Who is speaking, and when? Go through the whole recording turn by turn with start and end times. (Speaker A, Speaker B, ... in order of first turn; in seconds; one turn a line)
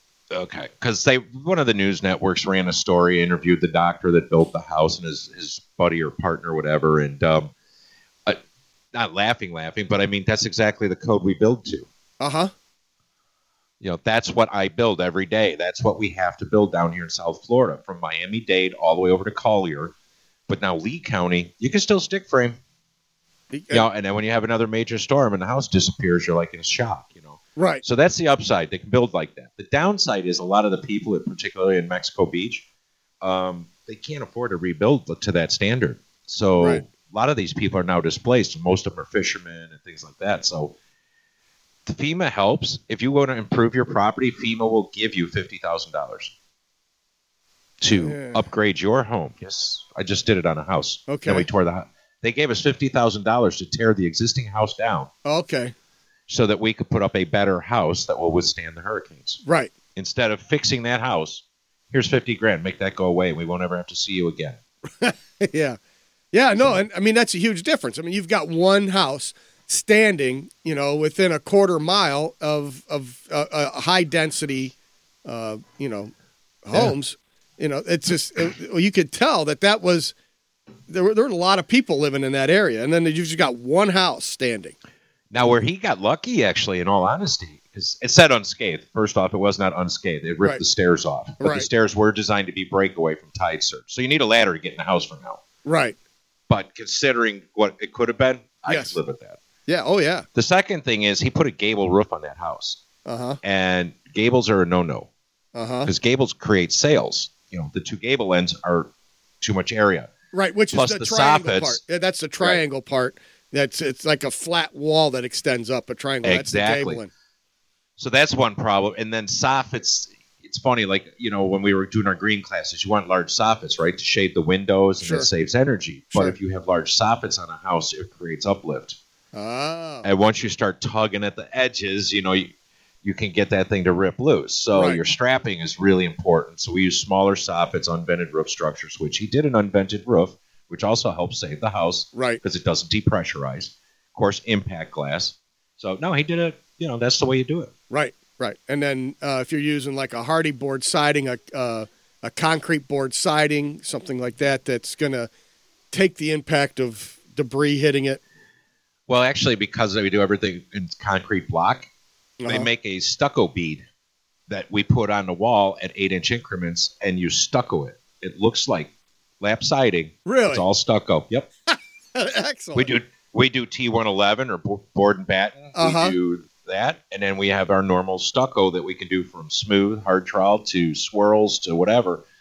Speaker A: 0.3-7.5
Speaker A: 8.9-11.9
Speaker B: 12.2-12.5
Speaker A: 13.8-19.9
Speaker A: 20.5-22.6
Speaker B: 23.5-23.9
Speaker A: 23.7-32.6
Speaker B: 27.6-27.8
Speaker A: 33.2-40.7
Speaker B: 36.6-36.8
Speaker A: 41.9-46.3
Speaker A: 47.8-55.1
Speaker B: 48.0-48.4
Speaker B: 51.1-51.5
Speaker B: 55.2-55.7
Speaker A: 56.3-59.4
Speaker B: 59.4-59.7
Speaker A: 60.0-64.6
Speaker B: 65.0-65.8
Speaker B: 66.3-76.1
Speaker B: 76.7-80.1
Speaker B: 80.9-84.7
Speaker A: 85.3-95.4
Speaker B: 91.4-91.7
Speaker B: 95.7-96.0
Speaker A: 96.5-99.4
Speaker B: 98.7-99.0
Speaker B: 99.7-100.3
Speaker A: 100.3-102.8
Speaker B: 103.0-103.4
Speaker A: 103.4-105.1
Speaker B: 105.5-105.9
Speaker A: 105.8-110.1
Speaker B: 110.3-117.1
Speaker A: 110.7-111.8
Speaker A: 116.2-117.0
Speaker A: 118.0-129.0
Speaker B: 125.0-125.3
Speaker B: 129.3-130.1
Speaker A: 130.0-132.5
Speaker A: 133.0-147.7
Speaker B: 134.7-135.0
Speaker B: 142.1-142.4
Speaker B: 147.9-155.3
Speaker B: 155.9-158.2
Speaker A: 159.1-161.9
Speaker B: 162.4-162.7
Speaker A: 162.5-163.8
Speaker A: 164.5-171.5
Speaker B: 170.2-170.6
Speaker B: 171.7-172.9
Speaker A: 172.7-182.2
Speaker B: 175.8-176.1